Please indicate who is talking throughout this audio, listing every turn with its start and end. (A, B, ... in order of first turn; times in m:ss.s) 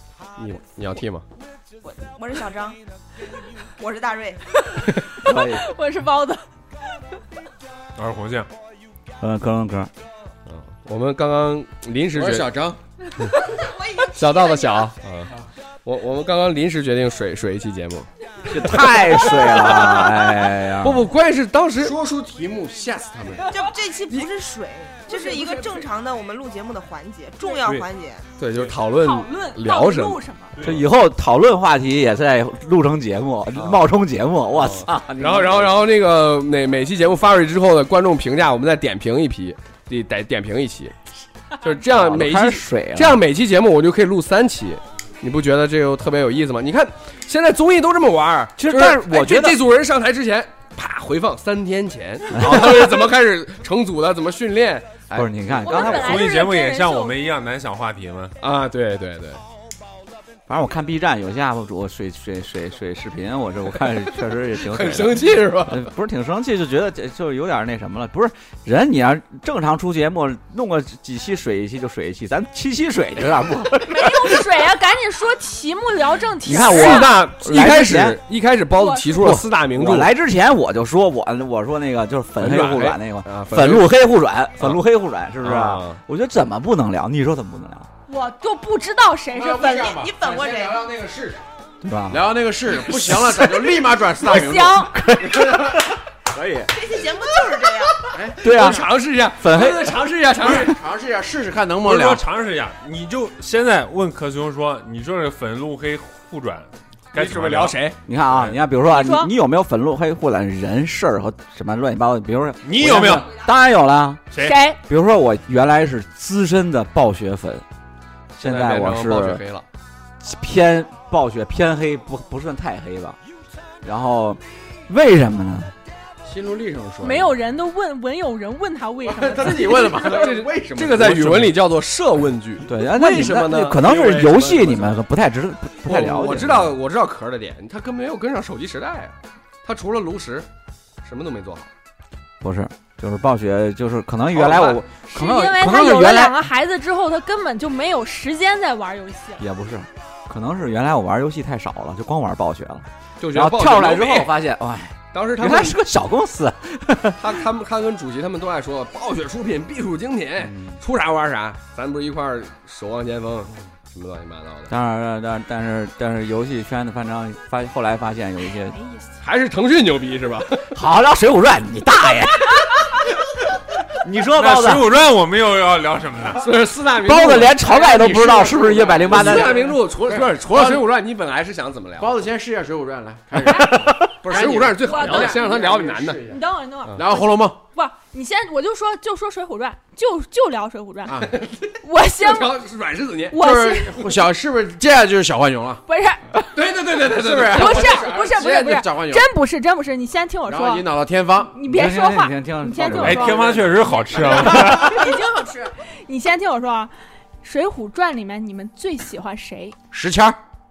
0:00.4-0:01.2 A
0:01.8-0:02.8 B
0:03.8-0:04.6 B
0:05.2-0:05.6 C
0:05.2-0:06.4 D
0:08.0-0:08.5 E
0:09.2-0:09.9 C
0:10.4-0:12.5 A
0:12.1-0:12.8 F
0:13.4-0:14.9 B
0:14.0-0:15.3 A
0:15.8-0:22.0 A
0:18.5-0:21.0 C
0:21.8-0:23.5 F
0:23.4-0:28.3 B
0:25.1-0:25.8 D
0:28.4-0:30.2 A
0:29.0-0:30.6 D
0:30.6-0:30.8 E
0:30.6-0:35.8 C
0:34.5-0:40.9 A
0:41.6-0:56.0 A
0:41.8-0:43.2 C
0:48.6-0:49.6 C
0:52.3-0:52.9 C
0:55.1-0:56.3 C
0:55.6-0:57.2 D
0:55.8-0:58.4 E
0:58.4-0:59.4 A
1:00.5-1:14.4 C
1:04.6-1:05.9 A
1:13.8-1:17.2 D
1:16.4-1:18.2 C
1:16.5-1:20.1 A
1:18.7-1:19.2 D
1:19.2-1:27.9 C
1:22.4-1:23.9 A
1:25.4-1:26.0 A
1:28.1-1:30.0 D
1:29.3-1:31.4 F
1:29.9-1:30.9 B
1:31.8-1:32.2 C
1:32.1-1:35.8 F
1:34.2-1:35.0 D
1:35.2-1:35.8 C
1:36.3-1:36.7 C
1:36.7-1:38.1 B
1:38.1-1:38.8 F
1:38.4-1:40.5 C
1:38.4-1:40.8 A
1:40.4-1:42.2 F
1:41.8-1:47.8 E
1:47.1-1:48.0 A
1:48.1-1:57.6 C
1:48.3-1:48.6 E
1:48.9-1:49.3 D
1:52.6-1:53.3 E
1:54.3-1:54.6 E
1:54.4-1:54.8 D
1:58.3-1:59.4 C
1:58.4-1:59.6 A
2:00.2-2:03.2 C
2:03.8-2:05.7 C
2:06.2-2:07.3 F
2:07.0-2:10.2 D
2:09.0-2:11.2 F
2:09.8-2:15.0 A
2:11.0-2:11.5 C
2:12.6-2:16.7 C
2:15.8-2:20.5 A
2:21.0-2:21.7 A
2:22.4-2:26.4 C
2:24.3-2:24.8 A
2:25.0-2:29.4 D
2:29.4-2:37.4 C
2:33.2-2:34.3 A
2:35.1-2:35.8 A
2:37.2-2:44.7 A
2:40.4-2:40.8 C
2:44.7-2:48.8 C
2:48.7-2:49.1 D
2:49.2-2:50.8 A
2:50.7-2:53.0 C
2:53.9-2:54.9 C
2:54.3-2:56.4 E
2:56.4-3:02.2 A
2:57.0-2:59.7 C
2:57.8-3:00.9 F
3:02.0-3:06.4 F
3:03.4-3:03.8 D
3:03.4-3:04.3 C
3:04.2-3:06.2 A
3:04.8-3:05.5 D
3:06.3-3:11.3 D
3:07.0-3:07.6 F
3:11.1-3:11.4 F
3:11.4-3:13.4 A
3:11.8-3:12.5 D
3:13.3-3:14.2 D
3:13.4-3:15.8 F
3:15.9-3:16.2 D
3:16.5-3:18.1 A
3:16.9-3:19.3 F
3:17.5-3:29.8 D
3:20.5-3:21.6 F
3:21.6-3:23.4 C
3:23.0-3:25.1 E
3:23.5-3:24.8 F
3:29.9-3:30.4 F